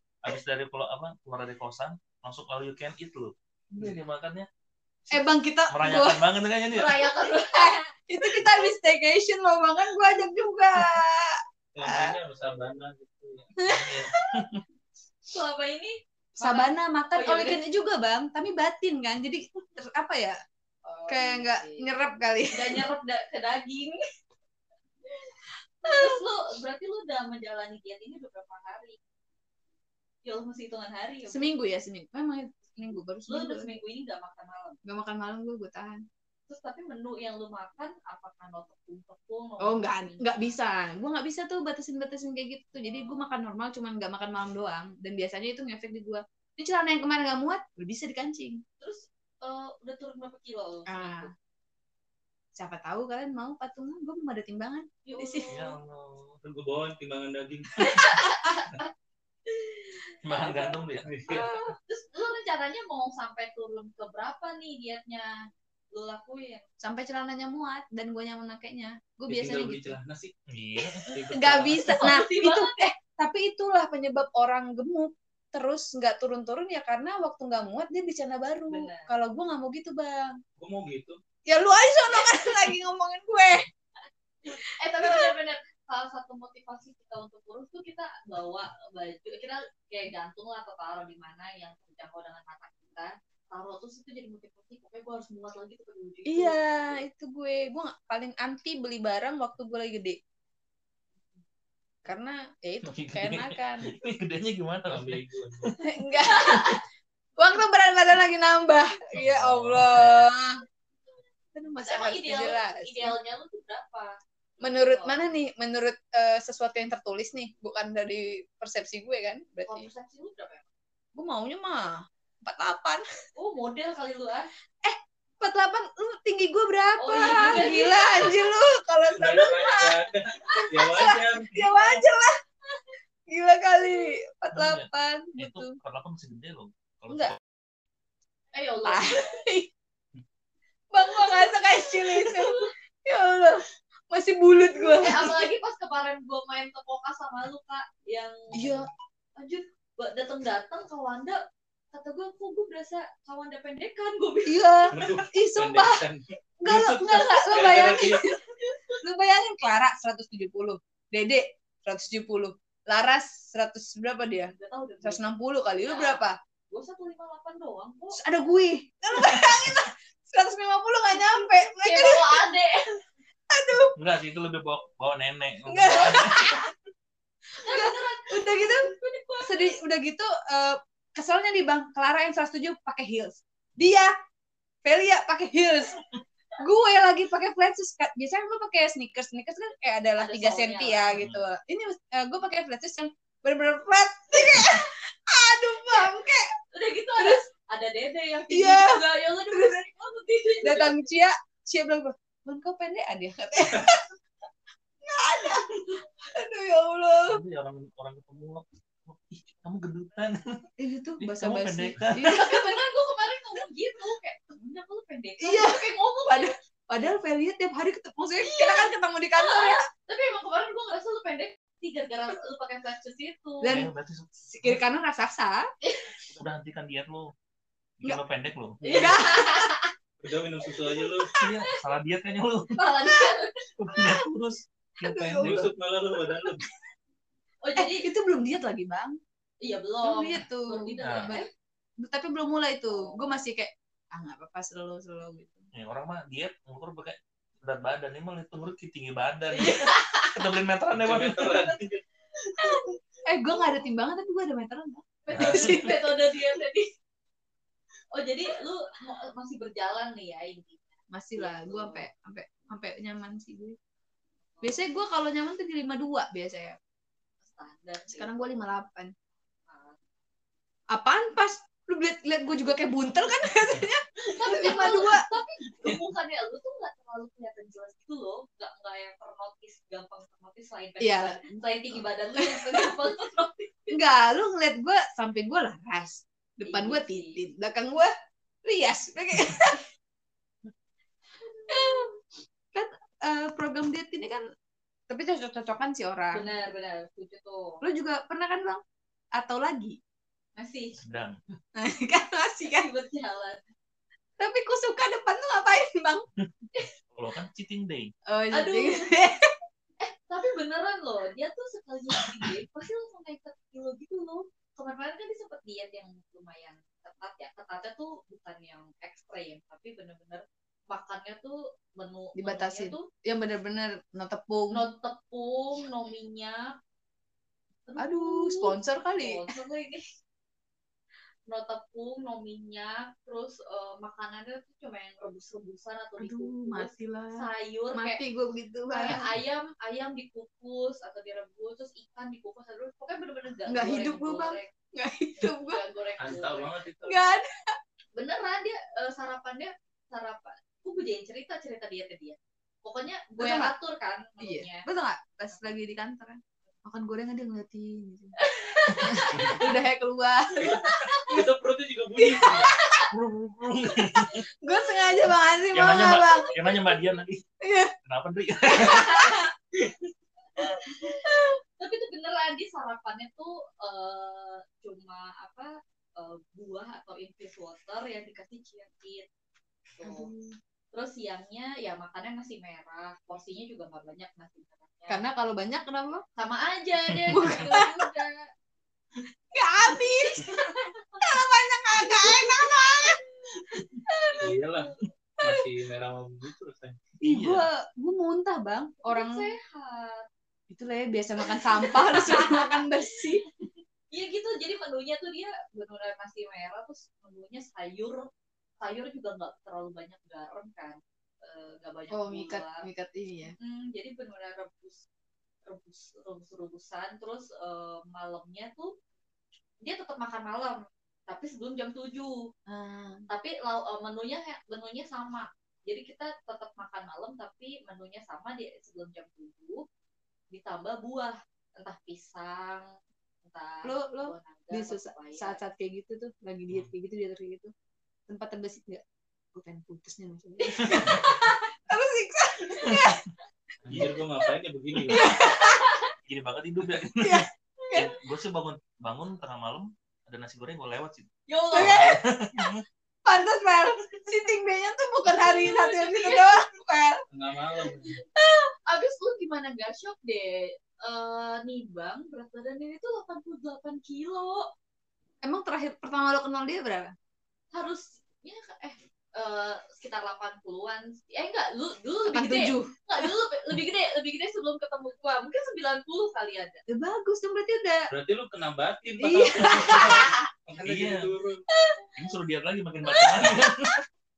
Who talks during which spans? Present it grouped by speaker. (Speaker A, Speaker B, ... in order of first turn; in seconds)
Speaker A: 0.2-4.5, 5.1-7.0, 13.7-14.6, 55.5-56.4, 60.2-61.1, 70.5-71.1, 102.9-105.8, 109.2-110.3, 131.6-131.9, 134.5-137.4, 174.0-176.6, 191.2-191.4, 207.3-210.4, 211.2-212.5, 223.7-224.8, 226.3-227.3, 228.0-228.8, 231.4-232.7, 233.8-235.7, 241.0-241.3, 245.7-251.7, 255.3-255.7, 301.0-301.4, 307.1-308.1, 363.1-364.5, 365.7-367.4, 368.1-369.3, 387.1-387.6, 397.2-397.7, 440.8-441.4, 443.9-444.2, 446.3-447.4, 447.9-452.8, 480.8-481.3, 482.2-483.9
Speaker B: 5.1-6.2, 7.1-12.2, 13.6-14.2, 16.4-20.4, 21.1-22.9, 25.9-26.2, 31.3-33.8, 34.9-36.0, 39.6-48.6, 50.9-51.3, 52.6-55.6, 66.8-70.0, 71.3-80.4, 81.5-83.7, 85.0-85.3, 96.3-100.2, 102.1-103.9, 105.8-106.8, 107.4-110.5, 111.5-113.2, 114.6-119.9, 121.2-123.0, 124.8-130.0, 130.6-132.3, 133.3-135.8, 137.1-137.4, 138.8-139.7, 140.9-145.5, 148.6-148.9, 154.5-156.0, 156.6-158.4, 159.0-166.4, 168.1-172.5, 173.5-173.9, 175.7-176.7, 177.7-178.9, 179.4-184.1, 184.8-186.0, 186.6-196.5, 197.2-197.5, 198.5-199.8, 200.6-204.0, 205.1-205.7, 206.3-207.4, 210.8-212.7, 215.4-219.9, 223.6-223.9, 224.5-225.6, 228.9-229.8, 235.0-235.7, 237.8-239.2, 240.0-241.5, 242.0-245.7, 253.2-256.2, 261.1-263.8, 264.6-266.8, 268.1-269.1, 270.9-275.2, 281.0-282.9, 283.9-288.1, 288.6-289.9, 291.7-292.1, 292.7-294.4, 295.1-296.5, 297.8-298.8, 299.4-300.0, 301.8-302.9, 304.4-306.3, 308.3-309.5, 312.2-312.5, 322.4-324.9, 328.0-329.5, 336.2-339.3, 343.7-345.8, 347.0-347.4, 353.4-353.7, 354.4-358.4, 358.9-361.4, 364.6-366.5, 367.6-367.9, 368.8-369.5, 370.6-371.5, 380.0-380.6, 385.1-386.2, 387.3-387.9, 389.5-390.6, 391.2-393.2, 394.1-394.4, 397.2-399.5, 400.7-403.4, 412.1-413.6, 422.7-423.3, 433.9-437.7, 438.3-439.0, 439.5-443.2, 445.1-446.0, 447.2-448.1, 451.7-452.1, 453.2-457.2, 465.4-467.1, 472.3-473.3, 476.9-478.1, 479.2-480.3, 483.0-483.6
Speaker C: 6.7-7.9, 15.3-17.6, 20.9-21.9, 22.5-24.0, 25.8-29.0, 30.2-31.5, 32.7-34.8, 36.5-40.5, 42.7-43.3, 48.8-51.3, 55.0-55.7, 57.8-58.9, 59.5-60.8, 61.3-65.3, 65.9-66.7, 71.9-72.9, 78.7-79.1, 82.1-82.6, 84.5-97.0, 106.3-106.8, 111.8-115.2, 119.7-120.7, 123.3-124.5, 127.0-128.3, 138.5-139.3, 141.1-142.7, 144.8-148.7, 149.4-151.4, 151.9-154.8, 158.2-159.0, 164.5-165.2, 165.8-168.2, 171.1-172.8, 177.6-179.8, 190.2-191.2, 196.7-201.0, 212.3-216.5, 218.4-223.7, 225.8-226.1, 228.8-229.8, 232.8-233.5, 237.6-238.1, 239.6-241.5, 242.9-243.4, 249.6-250.4, 255.3-256.9, 258.1-262.1, 264.6-264.8, 267.4-268.7, 269.7-270.0, 274.4-284.1, 286.7-287.4, 291.5-292.1, 296.3-297.8, 300.6-301.0, 302.6-303.6, 308.5-309.1, 310.0-323.1, 324.7-326.7, 327.9-330.1, 331.5-338.2, 338.9-344.7, 345.4-346.7, 348.1-354.9, 358.4-359.7, 361.1-361.4, 362.4-363.1, 366.4-367.2, 368.7-369.4, 371.8-379.3, 380.0-380.3, 380.9-385.3, 386.4-388.5, 390.2-391.3, 392.1-393.2, 399.0-400.3, 401.4-408.3, 408.8-412.9, 413.6-415.0, 415.7-418.9, 419.8-422.5, 423.3-429.8, 430.5-432.9, 433.4-435.6, 451.5-452.1, 455.3-456.7, 458.8-464.7, 467.7-476.8
Speaker D: 11.8-13.5, 56.4-58.2, 61.0-61.6, 69.3-70.3, 71.1-72.2, 80.6-81.2, 104.9-105.7, 129.2-131.7, 154.9-158.3, 228.8-229.2, 230.2-231.3, 235.2-236.7, 250.9-252.0, 346.2-347.2, 360.6-362.8, 394.4-397.0, 443.9-445.3, 457.3-458.2, 478.1-481.7